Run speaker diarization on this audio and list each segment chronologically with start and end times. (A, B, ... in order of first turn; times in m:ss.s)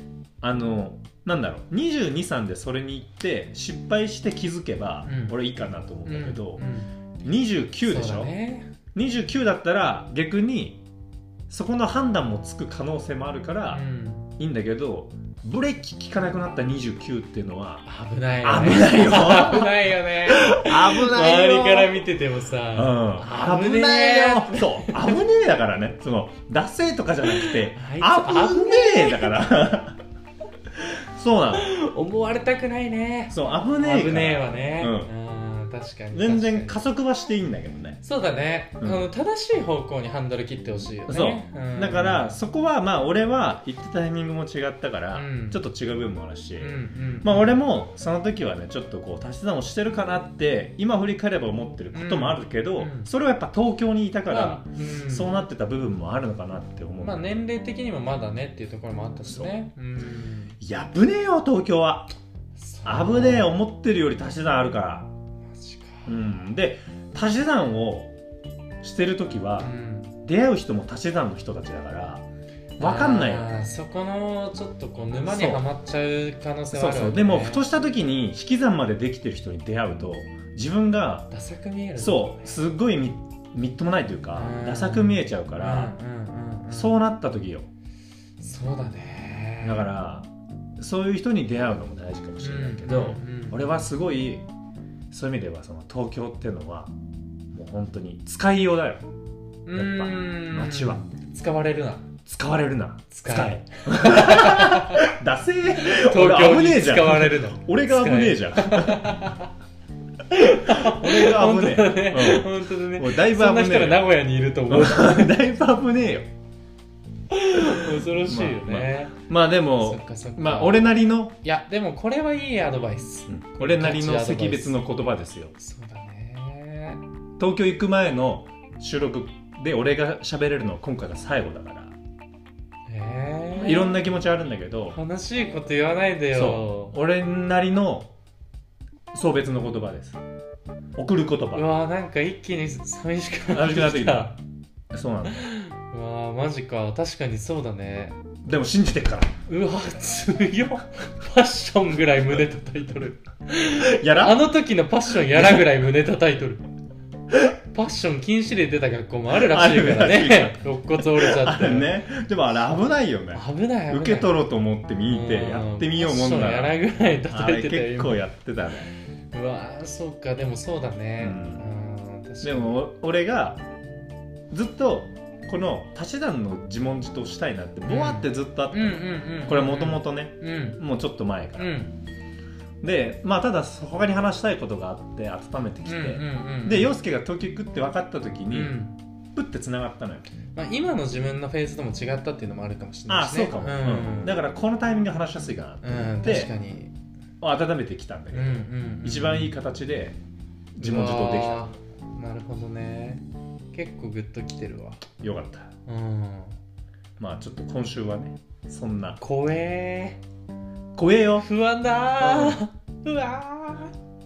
0:00.4-0:06.6 A
0:05.0-0:05.4 B
0:06.0-0:06.9 B
0:07.2-0:08.3 A
0:07.8-0:08.7 B
0:08.9-0:10.8 A
0:11.5-0:13.8 A
0:13.7-0:14.3 B
0:14.4-0:17.8 A
0:17.8-0:25.2 B
0:18.4-0:22.0 A
0:22.7-0:30.0 A
0:27.3-0:29.4 B
0:30.8-0:31.6 A
0:31.5-0:36.8 B
0:33.3-0:35.1 A
0:36.1-0:38.0 A
0:38.0-0:42.4 B
0:38.8-0:39.0 A
0:41.1-0:57.2 A
0:45.1-0:45.6 B
0:46.6-0:47.5 B
0:51.9-0:53.1 B
0:54.3-0:55.4 B
0:57.0-1:00.5 B
0:59.3-0:59.5 A
1:00.6-1:02.1 A
1:02.6-1:03.5 B
1:02.8-1:05.1 A
1:05.5-1:06.1 B
1:06.0-1:08.1 A
1:08.8-1:09.7 A
1:09.6-1:10.1 B
1:10.2-1:12.2 A
1:12.8-1:13.6 A
1:12.8-1:17.6 B
1:15.2-1:15.6 A
1:16.7-1:21.3 A
1:21.3-1:22.6 B
1:22.0-1:25.9 A
1:24.3-1:26.9 B
1:26.7-1:27.7 A
1:28.4-1:29.9 B
1:29.6-1:34.5 A
1:32.4-1:33.6 B
1:35.1-1:36.9 A
1:37.5-1:39.1 A
1:39.6-1:42.1 B
1:39.7-1:41.0 A
1:42.2-1:49.3 A
1:43.1-1:45.1 B
1:45.8-1:49.5 B
1:50.3-1:55.4 B
1:50.6-1:54.1 A
1:54.7-1:56.3 A
1:57.3-1:59.2 B
1:57.6-2:01.4 A
1:59.8-2:05.0 B
2:03.3-2:05.5 A
2:05.6-2:07.0 B
2:07.4-2:12.0 A
2:12.9-2:14.0 B
2:13.6-2:15.0 A
2:14.9-2:17.0 B
2:16.3-2:18.1 A
2:19.1-2:20.2 A
2:21.0-2:21.7 A
2:21.5-2:24.4 B
2:23.5-2:24.3 A
2:24.9-2:25.4 A
2:25.3-2:28.2 B
2:28.4-2:29.3 A
2:29.5-2:36.6 B
2:33.8-2:34.5 A
2:35.3-2:35.7 A
2:37.7-2:41.9 B
2:39.3-2:46.8 A
2:43.3-2:44.4 B
2:45.1-2:48.2 B
2:47.3-2:48.9 A
2:49.3-2:52.8 B
2:51.2-2:51.6 A
2:52.4-2:53.6 A
2:54.5-3:01.8 A
2:57.9-3:00.8 B
3:01.6-3:02.0 B
3:02.8-3:08.8 A
3:05.8-3:06.9 B
3:08.5-3:08.9 B
3:09.3-3:10.3 A
3:10.5-3:14.4 B
3:13.1-3:16.5 A
3:15.8-3:16.9 B
3:17.4-3:20.2 A
3:18.3-3:19.5 B
3:20.8-3:21.7 A
3:20.8-3:25.0 B
3:25.1-3:25.7 A
3:25.9-3:26.6 B
3:27.2-3:29.2 A
3:29.2-3:30.2 B
3:30.9-3:31.5 A
3:31.4-3:33.9 B
3:32.2-3:32.6 A